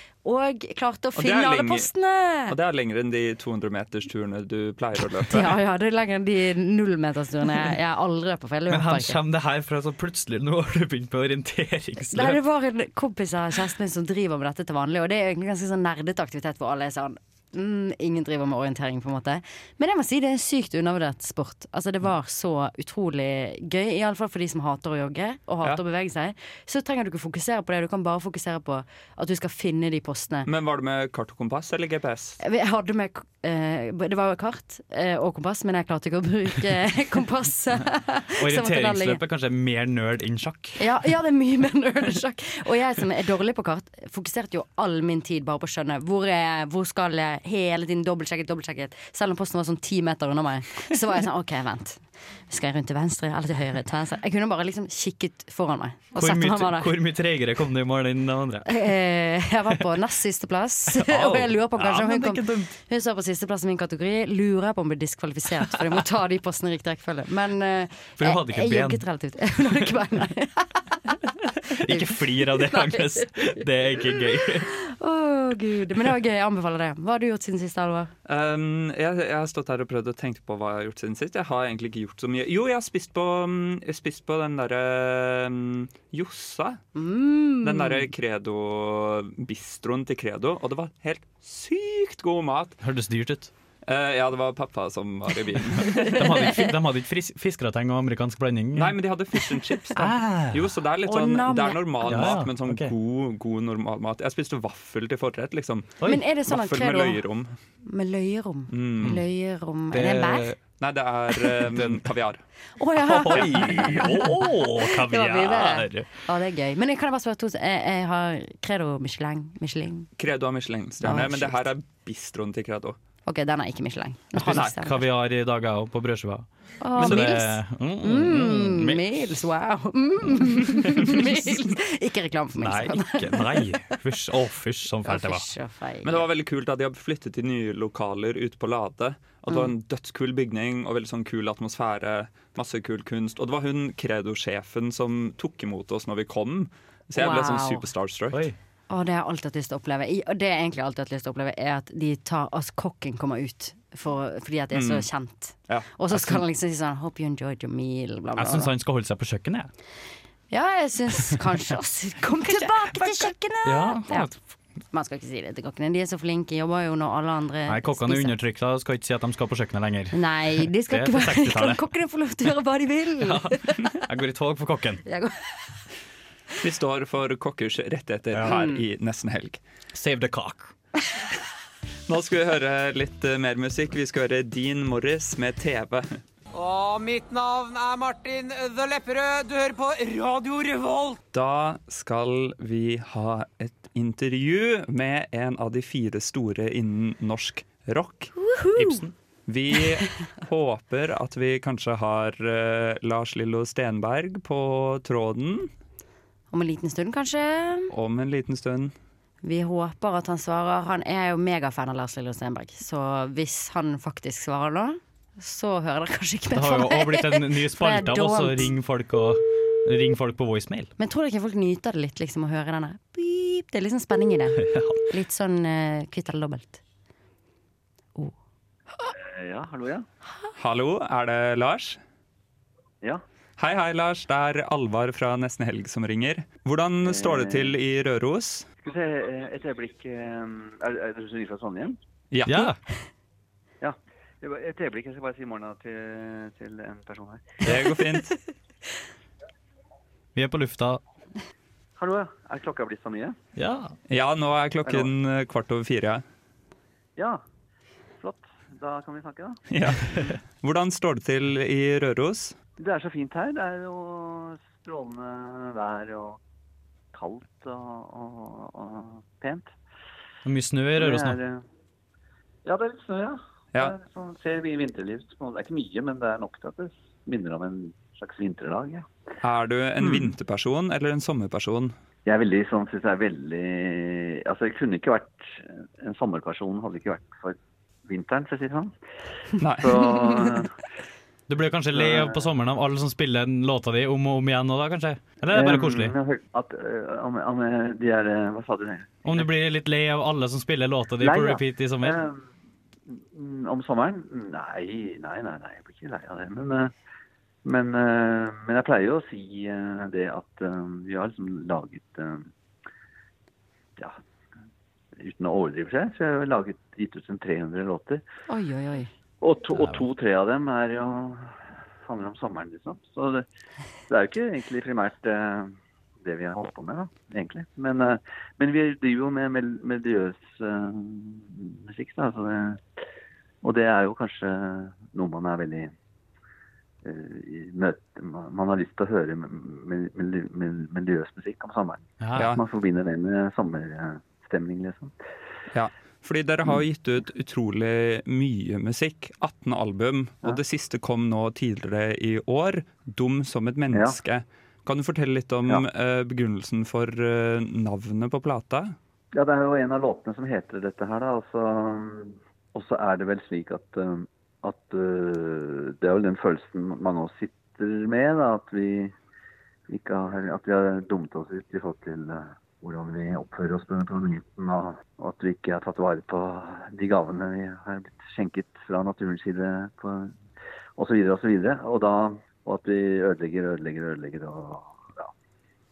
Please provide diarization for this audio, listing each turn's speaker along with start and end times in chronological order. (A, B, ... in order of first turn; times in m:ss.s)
0:00.2-0:02.6 A
0:01.2-0:01.9 B
0:02.5-0:05.5 B
0:05.3-0:09.2 A
0:08.7-0:12.4 C
0:12.1-0:30.5 A
0:30.4-0:32.4 B
0:32.4-0:39.2 A
0:38.4-0:40.8 C
0:40.8-0:56.9 A
0:56.2-0:58.7 C
0:58.6-1:11.2 A
1:00.9-1:02.7 C
1:08.2-1:09.0 C
1:09.6-1:09.9 C
1:11.8-1:14.7 C
1:11.8-1:14.1 A
1:14.7-1:18.1 A
1:18.2-1:26.8 B
1:26.9-1:28.1 A
1:27.6-1:32.8 B
1:32.8-1:33.5 C
1:33.8-1:36.3 B
1:36.1-1:39.0 C
1:38.7-1:47.6 B
1:40.0-1:40.7 C
1:41.0-1:42.4 A
1:42.1-1:42.9 C
1:46.0-1:47.2 A
1:47.8-1:50.5 A
1:48.7-1:49.2 B
1:49.9-1:50.5 C
1:50.6-1:52.4 B
1:51.7-1:52.1 C
1:52.8-1:54.2 A
1:53.0-1:56.1 C
1:55.0-2:00.1 A
2:00.2-2:03.0 B
2:01.0-2:01.6 A
2:03.2-2:05.0 A
2:04.4-2:04.8 B
2:04.5-2:09.2 C
2:06.8-2:14.0 A
2:07.0-2:07.3 B
2:11.0-2:11.2 C
2:12.6-2:15.5 C
2:15.0-2:16.2 A
2:16.0-2:28.5 B
2:27.2-2:27.8 A
2:28.9-2:38.7 A
2:34.7-2:35.1 B
2:35.7-2:36.4 B
2:38.4-2:39.7 C
2:40.5-2:44.3 A
2:42.4-2:43.3 B
2:43.6-2:44.3 C
2:44.9-2:48.3 A
2:47.7-2:51.8 C
2:50.1-2:53.9 A
2:53.2-2:55.0 C
2:55.0-2:55.7 A
2:56.6-2:59.6 B
2:58.4-2:58.8 A
2:59.9-3:00.7 C
3:02.1-3:06.1 B
3:06.5-3:11.2 D
3:11.3-3:18.3 B
3:18.4-3:19.0 A
3:18.8-3:19.1 C
3:19.5-3:25.7 B
3:26.5-3:27.9 A
3:27.9-3:28.9 B
3:29.4-3:38.7 A
3:36.5-3:40.9 C
3:41.0-3:46.8 A
3:44.6-3:45.0 C
3:49.1-3:50.0 E
3:50.6-3:52.0 B
3:53.6-3:58.6 B
3:57.0-3:57.7 E
3:58.8-4:02.0 E
4:02.3-4:02.7 B
4:02.5-4:02.8 C
4:03.8-4:07.6 E
4:07.6-4:08.3 B
4:10.3-4:11.0 C
4:12.0-4:13.4 E
4:13.6-4:13.9 C
4:14.1-4:16.2 B
4:18.2-4:19.6 E
4:19.7-4:22.6 B
4:22.8-4:26.4 E
4:27.1-4:29.7 E
4:30.4-4:31.4 C
4:31.0-4:31.6 E
4:32.6-4:39.0 E
4:39.4-4:42.0 B
4:42.2-4:48.9 E
4:49.6-4:49.9 B
4:49.8-4:50.8 E
4:51.5-4:56.1 C
4:51.9-4:52.4 E
4:55.5-4:59.5 E
4:59.2-5:02.2 C
5:01.2-5:02.4 E
5:03.1-5:06.9 E
5:07.6-5:12.5 E
5:15.2-5:18.2 E
5:18.5-5:19.1 A
5:19.4-5:23.4 E
5:19.8-5:20.0 C
5:24.1-5:32.8 E
5:33.6-5:35.9 E
5:37.0-5:45.1 E
5:42.2-5:42.5 C
5:42.3-5:42.6 B
5:45.7-5:59.0 B
5:59.3-6:09.1 E
6:09.9-6:20.4 E
6:21.0-6:25.3 E